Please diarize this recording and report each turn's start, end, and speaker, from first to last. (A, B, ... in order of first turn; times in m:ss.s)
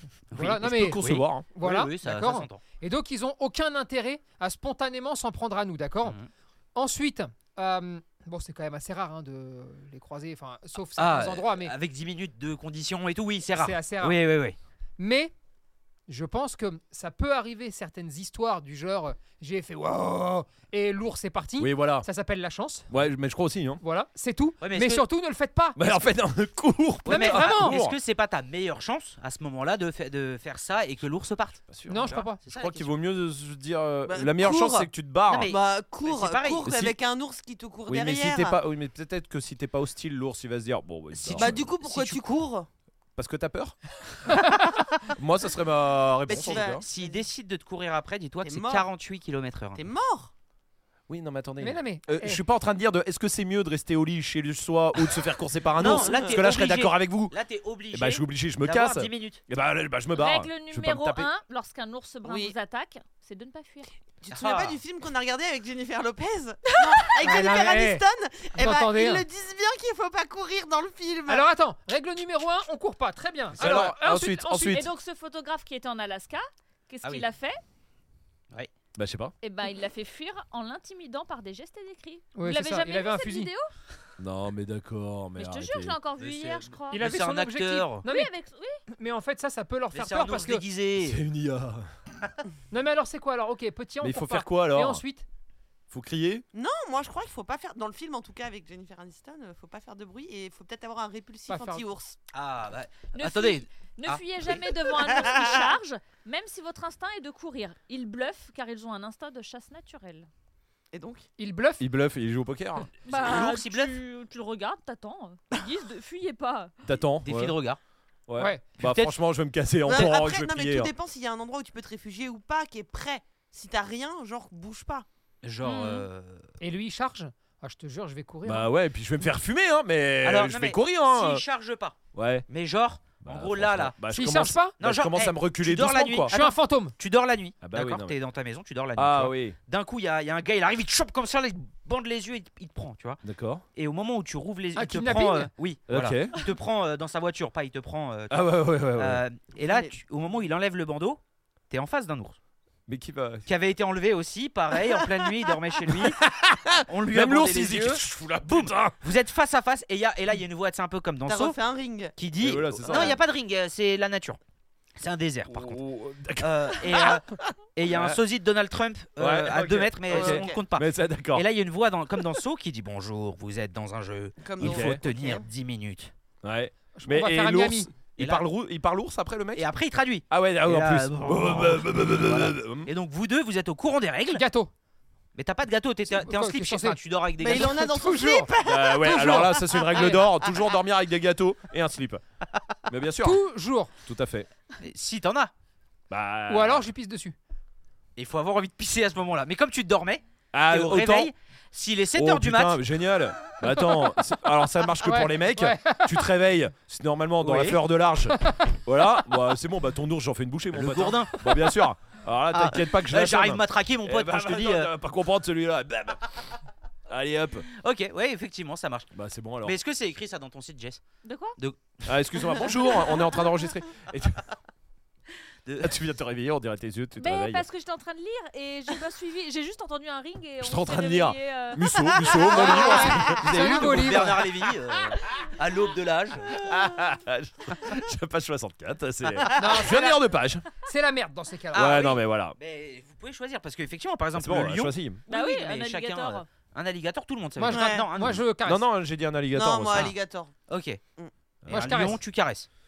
0:00.3-0:06.2 A
0:00.3-0:01.4 B
0:01.0-0:02.6 C
0:06.0-0:06.3 C
0:06.8-0:11.7 A
0:11.0-0:14.6 C
0:13.6-0:14.2 A
0:15.0-0:15.3 A
0:16.1-0:22.9 A
0:21.6-0:22.1 B
0:22.9-0:23.8 B
0:23.8-0:26.0 A
0:24.6-0:25.1 C
0:25.8-0:28.0 B
0:27.1-0:27.8 A
0:27.1-0:32.9 C
0:31.7-0:35.5 B
0:31.9-0:32.4 A
0:34.0-0:34.9 D
0:35.3-0:36.7 C
0:35.4-0:38.6 D
0:36.7-0:37.0 B
0:37.9-0:41.7 B
0:41.1-0:42.2 C
0:41.3-0:42.7 D
0:43.2-0:43.8 B
0:45.1-0:46.8 B
0:46.3-0:47.2 D
0:46.5-0:49.8 C
0:48.4-0:48.9 D
0:49.8-0:50.3 D
0:51.1-0:57.4 B
0:51.6-0:52.4 A
0:55.8-0:59.4 C
0:55.8-0:56.4 D
0:57.9-1:01.3 B
1:00.1-1:03.9 E
1:02.2-1:02.6 D
1:04.2-1:11.5 D
1:04.3-1:04.8 C
1:06.7-1:07.2 E
1:07.2-1:08.0 A
1:08.6-1:09.2 A
1:11.3-1:14.7 A
1:13.6-1:14.9 B
1:14.6-1:17.6 E
1:19.0-1:19.3 B
1:19.4-1:23.7 E
1:22.4-1:23.5 A
1:24.2-1:26.0 B
1:25.4-1:27.1 E
1:26.2-1:28.0 C
1:26.9-1:28.3 A
1:28.0-1:28.8 E
1:28.9-1:30.6 A
1:29.9-1:31.2 C
1:31.0-1:31.9 B
1:32.7-1:35.2 A
1:34.0-1:35.0 B
1:35.9-1:36.4 B
1:36.5-1:42.2 D
1:41.5-1:41.8 A
1:42.3-1:44.2 C
1:43.1-1:50.3 E
1:50.9-1:51.3 D
1:51.4-1:51.8 A
1:51.8-1:52.9 B
1:53.0-1:56.7 E
1:53.1-1:54.0 C
1:56.8-1:57.6 B
1:57.2-1:57.8 C
1:58.3-2:00.9 B
1:58.8-1:59.2 C
1:59.9-2:05.1 D
2:05.4-2:06.5 C
2:05.6-2:06.1 E
2:06.6-2:08.7 A
2:08.4-2:11.4 B
2:10.2-2:14.0 C
2:12.1-2:12.5 B
2:13.2-2:16.3 B
2:14.1-2:14.8 A
2:14.8-2:23.2 C
2:16.3-2:16.9 A
2:17.6-2:18.2 B
2:19.0-2:19.6 B
2:23.2-2:23.6 B
2:23.7-2:32.4 C
2:24.8-2:25.5 A
2:25.9-2:26.4 B
2:28.3-2:29.2 B
2:29.6-2:30.0 D
2:32.9-2:33.5 B
2:33.5-2:36.2 C
2:35.9-2:39.0 B
2:36.9-2:41.6 C
2:41.3-2:42.2 D
2:42.2-2:44.4 C
2:42.4-2:43.2 B
2:42.8-2:43.2 D
2:45.0-2:45.8 C
2:45.5-2:48.2 B
2:46.4-2:56.1 C
2:49.2-2:51.5 B
2:50.1-2:50.6 D
2:54.4-2:55.5 D
2:54.6-2:55.0 B
2:56.4-2:59.7 B
2:57.0-2:57.9 A
2:58.2-2:58.4 C
2:59.6-3:04.4 C
3:00.3-3:02.9 B
3:04.3-3:04.7 A
3:05.4-3:07.8 C
3:06.1-3:08.5 A
3:07.4-3:10.5 D
3:08.6-3:12.2 B
3:09.1-3:10.2 A
3:12.9-3:13.4 B
3:13.2-3:13.9 A
3:14.0-3:14.5 B
3:14.8-3:15.5 C
3:16.1-3:16.9 B
3:16.5-3:17.4 A
3:18.2-3:22.8 C
3:20.5-3:21.3 B
3:22.2-3:36.2 B
3:25.0-3:26.3 A
3:27.4-3:27.8 C
3:30.7-3:31.5 C
3:32.5-3:34.9 C
3:37.1-3:37.7 B
3:37.8-3:41.0 C
3:39.1-3:39.8 B
3:41.2-3:41.6 E
3:41.6-3:42.6 C
3:42.1-3:44.5 B
3:43.0-3:43.4 E
3:45.6-3:46.0 C
3:45.8-3:47.7 B
3:47.2-3:52.9 E
3:50.6-3:54.4 B
3:52.5-3:54.5 A
3:53.2-3:56.7 C
3:56.6-4:00.7 B
3:59.6-4:00.2 A
4:00.8-4:02.1 A
4:01.7-4:02.6 B
4:01.7-4:08.4 C
4:04.4-4:05.2 B
4:05.3-4:06.5 E
4:07.6-4:08.9 A
4:07.7-4:08.1 D
4:08.6-4:10.1 B
4:09.5-4:10.6 D
4:10.7-4:11.0 C
4:11.6-4:12.2 B
4:11.7-4:12.7 C
4:11.7-4:12.2 A